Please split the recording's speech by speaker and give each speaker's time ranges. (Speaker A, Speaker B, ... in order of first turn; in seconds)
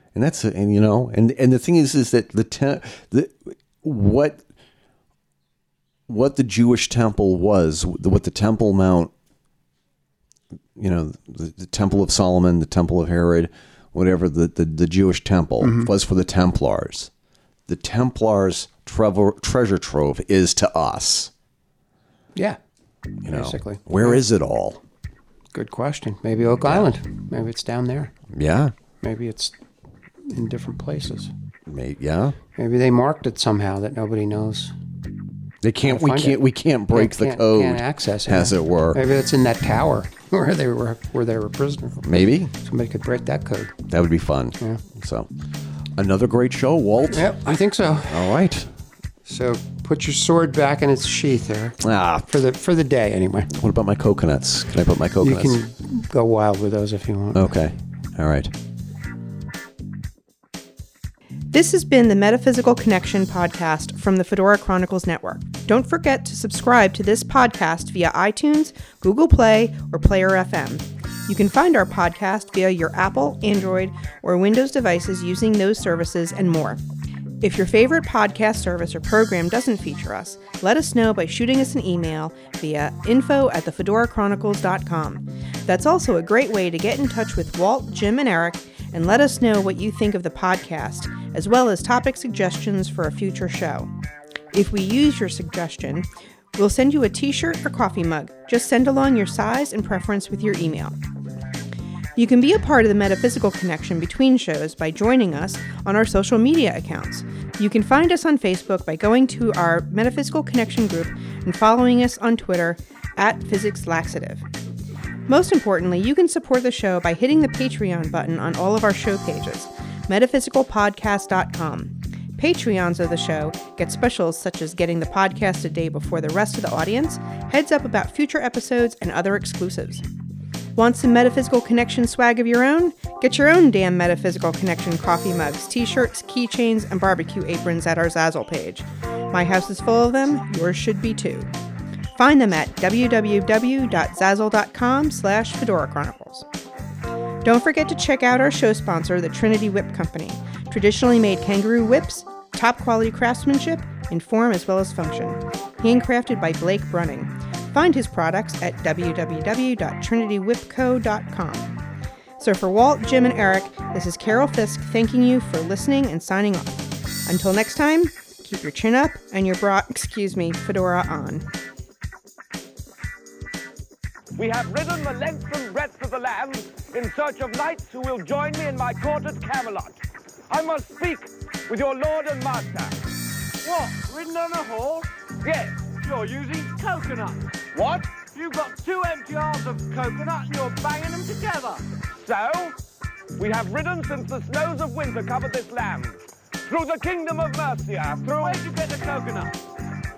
Speaker A: 0.1-4.4, 6.1-9.1, 10.8-17.1, 17.7-21.3, 23.2-24.8, 28.3-28.7, 31.7-32.4, 35.6-39.0, 42.0-42.5, 43.9-45.3, 46.0-47.3, 48.1-48.7, 51.8-52.3, 53.5-55.6, 57.3-58.5
Speaker B: 15.6-15.9, 23.3-24.2, 25.5-28.1, 29.0-29.6, 30.2-31.3, 32.5-34.7, 35.8-36.4, 36.9-42.0, 42.6-43.8, 47.1-48.4, 49.3-53.5, 55.2-57.6
Speaker C: 61.5-76.8, 77.4-93.9, 94.5-101.0, 102.2-114.5, 115.3-130.1, 130.8-141.5, 142.2-146.5, 147.4-161.8, 162.4-171.5
Speaker D: 174.4-180.0, 180.5-183.0, 185.4-185.8, 187.7-188.3, 192.1-192.8, 193.4-198.7
Speaker E: 183.7-185.1, 186.1-187.5, 188.4-191.8, 198.5-199.5